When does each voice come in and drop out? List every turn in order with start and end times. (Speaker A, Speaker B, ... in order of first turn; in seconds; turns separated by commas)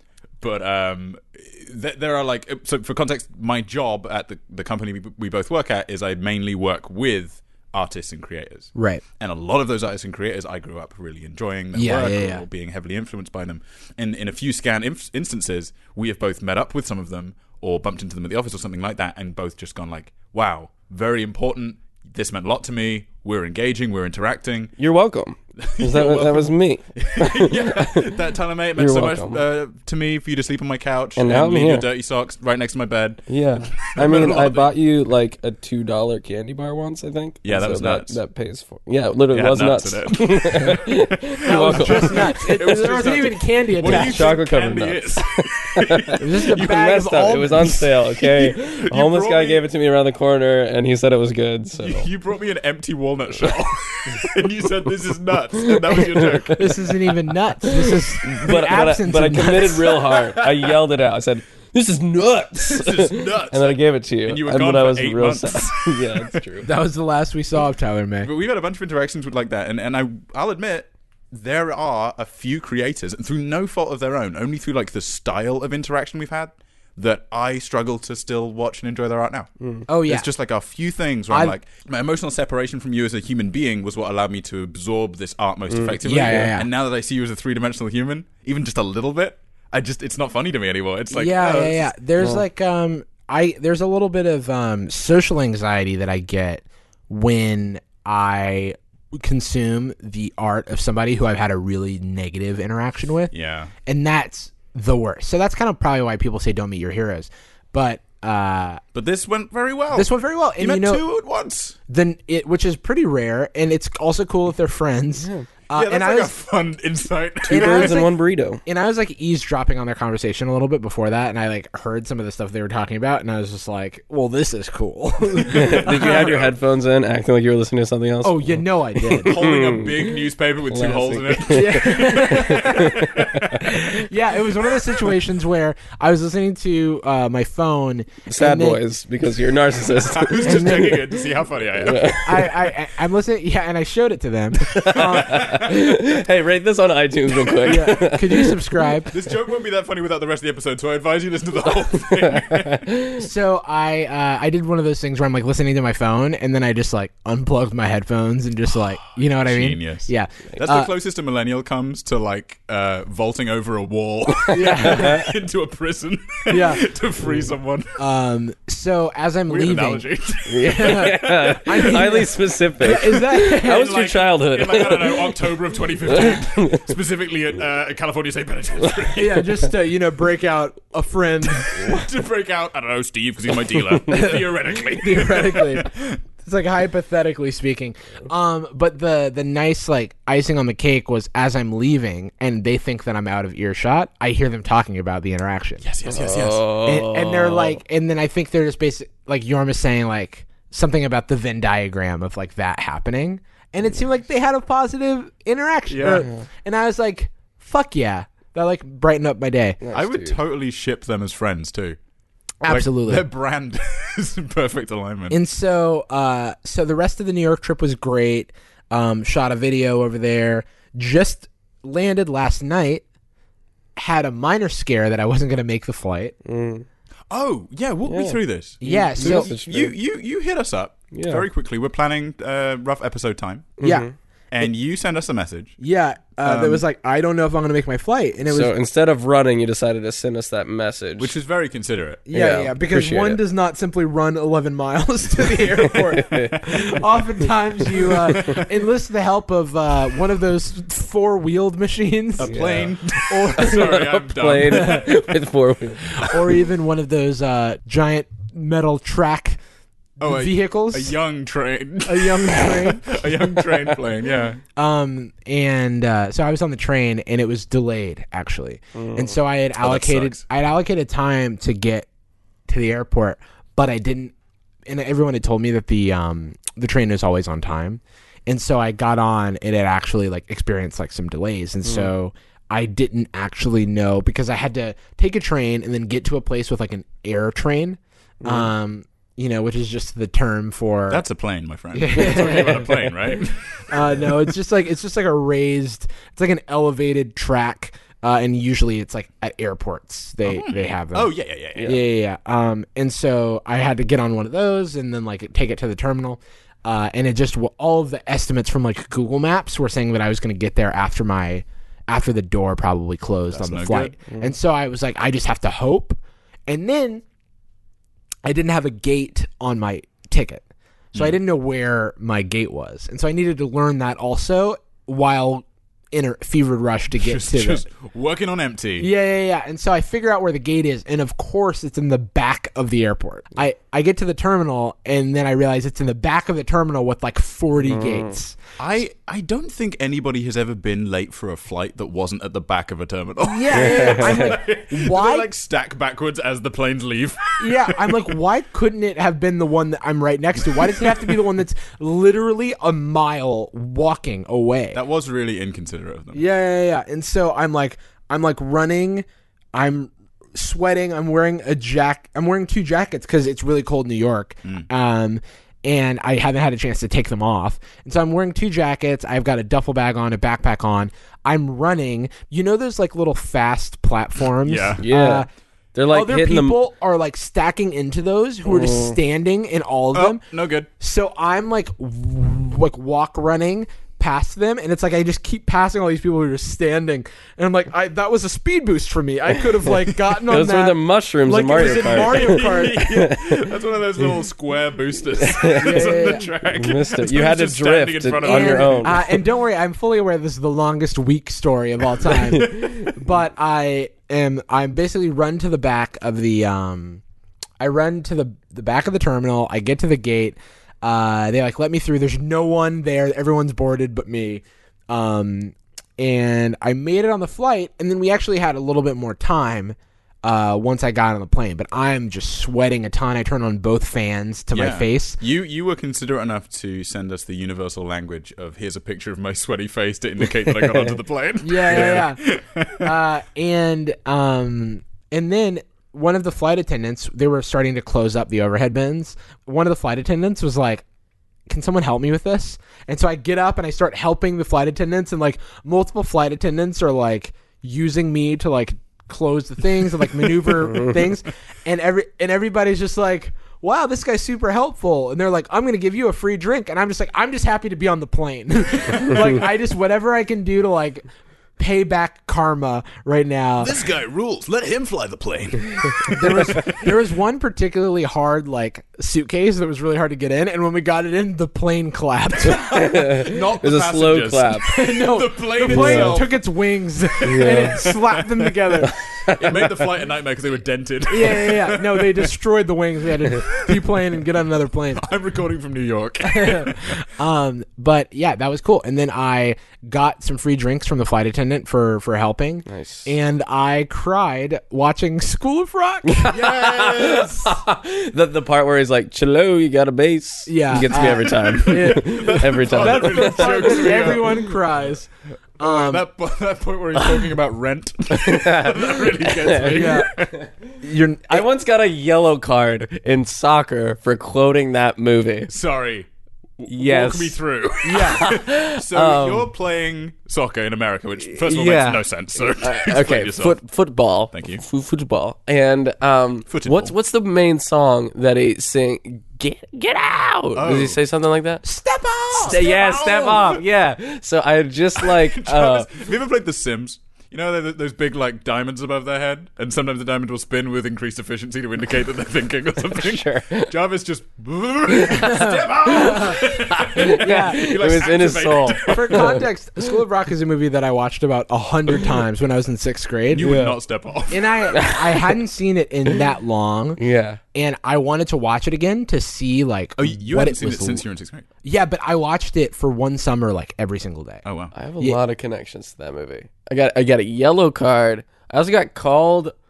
Speaker A: 0.4-24.7, Speaker B: 8.7-9.0, Speaker B: 11.7-12.4, Speaker C: 24.8-28.2, Speaker A: 25.6-34.7, Speaker C: 28.8-29.4, Speaker C: 31.2-31.9, Speaker C: 33.3-43.1, Speaker A: 37.4-38.2, Speaker A: 39.3-46.2, Speaker B: 41.5-44.4, Speaker C: 43.8-52.1, Speaker B: 46.2-47.9, Speaker A: 48.1-49.6, Speaker A: 51.8-56.8, Speaker C: 55.9-56.7, Speaker B: 56.5-60.0, Speaker C: 57.7-66.7, Speaker A: 60.1-60.7, Speaker A: 62.7-66.4, Speaker B: 66.6-68.3, Speaker A: 68.2-79.5, Speaker C: 79.6-79.8, Speaker B: 79.9-80.3, Speaker A: 80.0-91.9, Speaker B: 81.3-81.5, Speaker C: 85.7-86.5, Speaker B: 86.0-86.7, Speaker B: 91.1-103.3, Speaker A: 103.3-103.7, Speaker B: 103.8-108.8, Speaker A: 108.9-111.8, Speaker B: 109.9-111.0, Speaker B: 111.9-116.3, Speaker A: 115.7-118.0, Speaker C: 117.5-118.6, Speaker B: 117.5-126.5, Speaker A: 125.4-126.4, Speaker C: 125.5-133.6, Speaker B: 128.2-129.4, Speaker A: 129.1-133.8, Speaker B: 131.5-138.8, Speaker C: 138.3-141.0, Speaker A: 140.0-142.2, Speaker B: 140.4-141.0, Speaker C: 141.8-142.5, Speaker B: 142.2-145.6, Speaker A: 144.7-145.8, Speaker C: 144.8-148.6, Speaker B: 147.6-149.1, Speaker A: 149.1-152.9, Speaker C: 152.2-153.2, Speaker B: 153.2-160.9, Speaker A: 159.0-168.0, Speaker B: 164.5-165.3, Speaker C: 164.7-165.2, Speaker B: 166.5-166.8, Speaker B: 168.0-170.0, Speaker A: 169.5-171.8, Speaker C: 170.5-175.4, Speaker B: 170.6-174.0, Speaker A: 173.6-179.5, Speaker C: 176.1-176.8, Speaker B: 179.1-181.9, Speaker A: 181.4-186.2, Speaker B: 184.1-195.8, Speaker A: 195.8-196.7, Speaker C: 196.1-197.8, Speaker B: 196.8-209.8, Speaker A: 205.9-206.3, Speaker C: 209.8-210.4, Speaker A: 209.9-212.0, Speaker B: 212.6-213.2, Speaker A: 212.6-215.4, Speaker B: 215.3-223.0, Speaker B: 223.9-226.3, Speaker C: 226.4-226.8, Speaker A: 227.3-233.7, Speaker C: 228.1-229.9, Speaker B: 228.8-229.5, Speaker C: 231.1-231.4, Speaker C: 233.8-234.1, Speaker B: 233.8-234.1, Speaker A: 234.5-235.8, Speaker B: 235.8-238.7, Speaker A: 236.4-236.8, Speaker C: 238.5-241.3, Speaker A: 241.2-242.2, Speaker B: 242.3-254.0, Speaker C: 242.3-243.4, Speaker C: 245.8-246.9, Speaker A: 252.4-255.2, Speaker C: 252.4-252.9, Speaker C: 253.5-256.3, Speaker B: 254.7-255.1, Speaker B: 256.2-259.6, Speaker A: 260.2-264.6, Speaker B: 260.2-261.1, Speaker B: 262.1-263.5, Speaker B: 264.8-272.1, Speaker C: 268.9-269.3, Speaker A: 269.8-270.4, Speaker B: 272.7-274.3, Speaker B: 274.9-291.2, Speaker C: 281.8-282.1, Speaker C: 288.4-288.7, Speaker A: 291.1-294.3, Speaker B: 291.9-293.1, Speaker C: 292.2-292.9, Speaker B: 293.9-317.2, Speaker A: 300.4-302.0, Speaker A: 313.5-314.1, Speaker B: 318.4-327.8, Speaker A: 327.2-329.1, Speaker B: 329.0-338.6, Speaker C: 337.9-338.3, Speaker A: 338.8-348.3, Speaker B: 343.4-345.5, Speaker C: 343.7-344.5, Speaker B: 347.6-355.0, Speaker A: 350.9-351.3, Speaker A: 354.9-356.4, Speaker B: 356.3-375.5, Speaker A: 374.6-375.0, Speaker C: 375.0-376.8, Speaker B: 376.1-380.4, Speaker C: 378.6-379.1, Speaker A: 380.1-380.9, Speaker B: 381.0-393.1, Speaker C: 390.4-393.7, Speaker A: 391.8-399.2, Speaker C: 395.4-399.4, Speaker B: 395.8-396.5, Speaker B: 398.4-407.2, Speaker C: 402.5-402.8, Speaker A: 402.7-402.9, Speaker B: 407.8-425.4, Speaker A: 424.7-433.1, Speaker C: 430.8-431.1, Speaker B: 431.6-432.4, Speaker B: 432.9-441.0, Speaker B: 441.7-461.2, Speaker C: 450.8-451.2, Speaker B: 461.8-463.9, Speaker A: 463.8-467.0, Speaker B: 466.3-473.0, Speaker A: 472.6-476.6, Speaker C: 472.7-474.9, Speaker B: 474.9-479.1, Speaker C: 475.9-476.4, Speaker A: 477.3-478.9, Speaker C: 477.4-478.1, Speaker C: 479.4-479.8, Speaker A: 479.4-482.5, Speaker B: 481.3-485.2, Speaker A: 483.5-484.1, Speaker A: 485.1-487.2, Speaker B: 486.4-496.5, Speaker C: 492.9-493.3, Speaker C: 496.3-504.6, Speaker A: 496.4-497.8, Speaker B: 500.7-506.2, Speaker A: 501.2-504.5, Speaker A: 505.8-510.5, Speaker C: 508.4-510.2, Speaker B: 509.9-510.3, Speaker B: 511.0-511.7, Speaker C: 511.5-515.7, Speaker A: 515.7-516.3, Speaker A: 516.8-523.8, Speaker C: 516.9-519.7, Speaker B: 518.0-518.5, Speaker C: 521.6-531.8, Speaker A: 524.5-524.8, Speaker A: 526.7-527.1, Speaker A: 530.7-531.2, Speaker B: 531.8-532.8, Speaker C: 532.5-536.1, Speaker A: 532.6-533.8, Speaker A: 535.2-549.6, Speaker C: 543.0-543.9, Speaker C: 545.1-549.6, Speaker B: 545.3-546.6, Speaker B: 547.2-548.0, Speaker B: 549.0-553.7, Speaker A: 553.5-554.8, Speaker C: 553.6-554.0, Speaker B: 554.5-557.2, Speaker C: 554.9-555.5, Speaker C: 557.2-557.6, Speaker B: 557.7-561.2, Speaker A: 560.2-561.6, Speaker B: 561.8-564.6, Speaker A: 564.6-564.9, Speaker C: 564.9-569.7